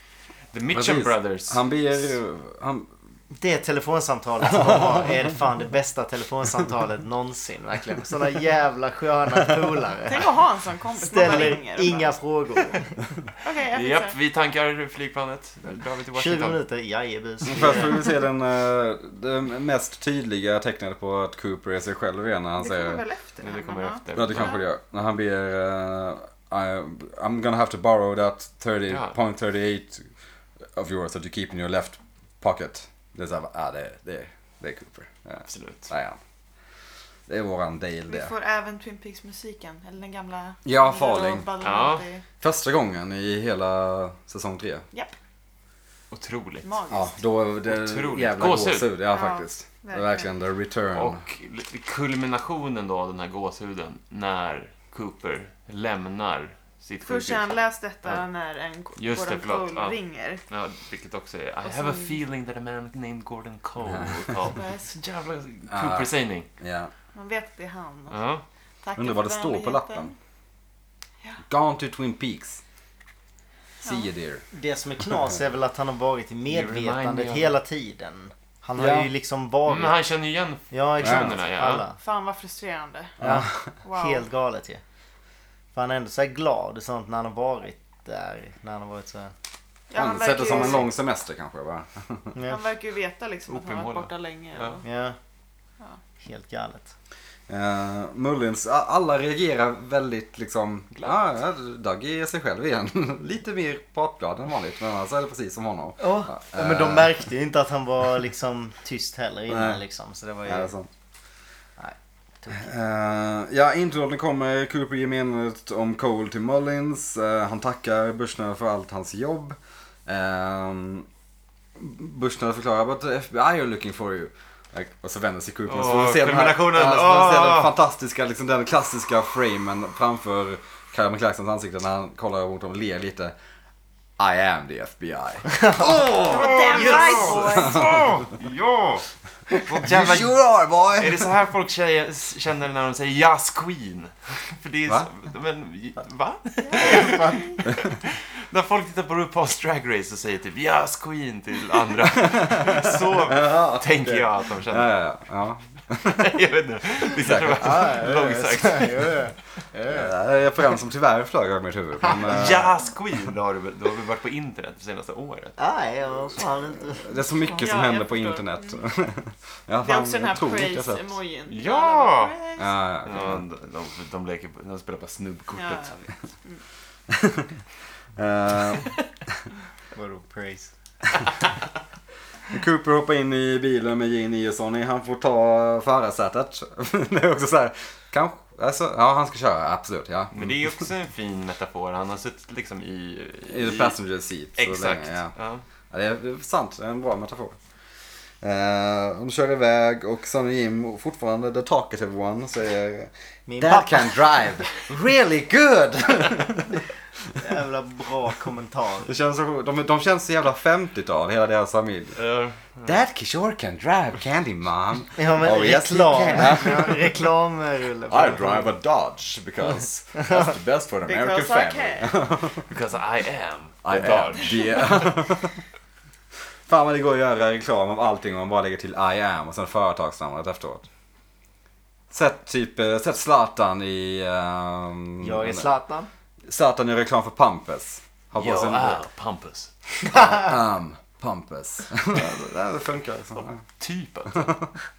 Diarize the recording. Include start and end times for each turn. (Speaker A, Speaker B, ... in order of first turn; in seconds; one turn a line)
Speaker A: 0.5-1.6
Speaker B: 0.7-2.9
Speaker C: 3.3-10.3
Speaker B: 4.5-5.0
Speaker D: 10.1-12.1
Speaker C: 11.0-13.0
Speaker D: 13.4-14.2
Speaker A: 13.7-16.6
Speaker C: 16.1-18.0
Speaker B: 17.4-23.0
Speaker D: 22.6-24.6
Speaker A: 23.4-24.6
Speaker B: 24.1-30.1
Speaker A: 28.9-29.1
Speaker B: 30.8-36.2
Speaker A: 35.5-35.9
Speaker B: 37.3-38.3
Speaker D: 38.1-42.2
Speaker B: 40.6-41.5
Speaker A: 41.6-42.1
Speaker B: 42.4-44.9
Speaker A: 46.1-46.7
Speaker D: 46.6-47.2
Speaker B: 46.9-51.2
Speaker A: 47.7-48.9
Speaker D: 49.1-50.3
Speaker A: 50.9-58.2
Speaker D: 57.0-60.4
Speaker A: 59.0-60.0
Speaker A: 60.5-66.5
Speaker D: 61.6-62.2
Speaker D: 64.5-64.9
Speaker B: 65.7-66.9
Speaker D: 67.1-68.2
Speaker A: 68.1-68.4
Speaker D: 68.8-70.1
Speaker B: 69.0-70.1
Speaker B: 71.5-72.6
Speaker B: 73.8-74.4
Speaker C: 74.5-80.0
Speaker A: 76.5-77.6
Speaker B: 78.8-79.1
Speaker A: 79.7-81.8
Speaker C: 80.7-82.0
Speaker B: 81.0-81.3
Speaker D: 82.0-83.2
Speaker B: 83.2-83.7
Speaker C: 83.2-84.8
Speaker D: 83.8-84.2
Speaker C: 85.7-89.3
Speaker D: 89.9-90.8
Speaker B: 89.9-92.3
Speaker C: 92.3-92.6
Speaker D: 92.5-94.8
Speaker A: 93.5-94.8
Speaker C: 94.8-95.2
Speaker C: 96.2-96.9
Speaker B: 97.5-107.2
Speaker C: 106.0-110.7
Speaker B: 109.5-109.8
Speaker B: 110.4-110.9
Speaker C: 111.8-112.7
Speaker B: 112.5-121.1
Speaker B: 121.8-133.3
Speaker A: 125.7-127.7
Speaker B: 134.2-138.0
Speaker C: 135.5-135.9
Speaker A: 135.8-139.1
Speaker D: 136.2-137.8
Speaker A: 139.7-140.3
Speaker B: 139.7-141.2
Speaker C: 139.8-140.1
Speaker A: 141.0-154.9
Speaker D: 146.6-147.6
Speaker C: 146.8-147.5
Speaker B: 152.5-156.2
Speaker A: 156.0-159.3
Speaker B: 157.2-158.0
Speaker C: 157.6-160.1
Speaker B: 159.9-162.7
Speaker A: 162.2-165.6
Speaker C: 165.6-167.2
Speaker B: 167.0-171.2
Speaker D: 167.5-168.8
Speaker D: 169.8-172.7
Speaker A: 171.5-172.3
Speaker B: 172.6-173.4
Speaker A: 173.0-176.0
Speaker D: 175.5-176.6
Speaker B: 177.1-177.5
Speaker B: 178.2-178.9
Speaker C: 179.9-180.7
Speaker B: 182.5-190.7
Speaker A: 190.3-194.0
Speaker B: 193.5-195.3
Speaker A: 194.6-195.6
Speaker B: 195.9-197.6
Speaker B: 198.4-206.8
Speaker C: 203.4-204.2
Speaker C: 207.3-209.1
Speaker B: 209.0-212.2
Speaker A: 212.1-212.9
Speaker B: 212.8-217.1
Speaker C: 215.2-218.7
Speaker B: 218.1-222.7
Speaker D: 221.0-222.1
Speaker A: 222.7-225.1
Speaker B: 223.8-225.6
Speaker B: 226.7-230.8
Speaker B: 232.1-235.7
Speaker C: 235.2-236.1
Speaker B: 236.4-239.0
Speaker A: 238.3-239.7
Speaker B: 240.1-243.6
Speaker A: 243.8-244.7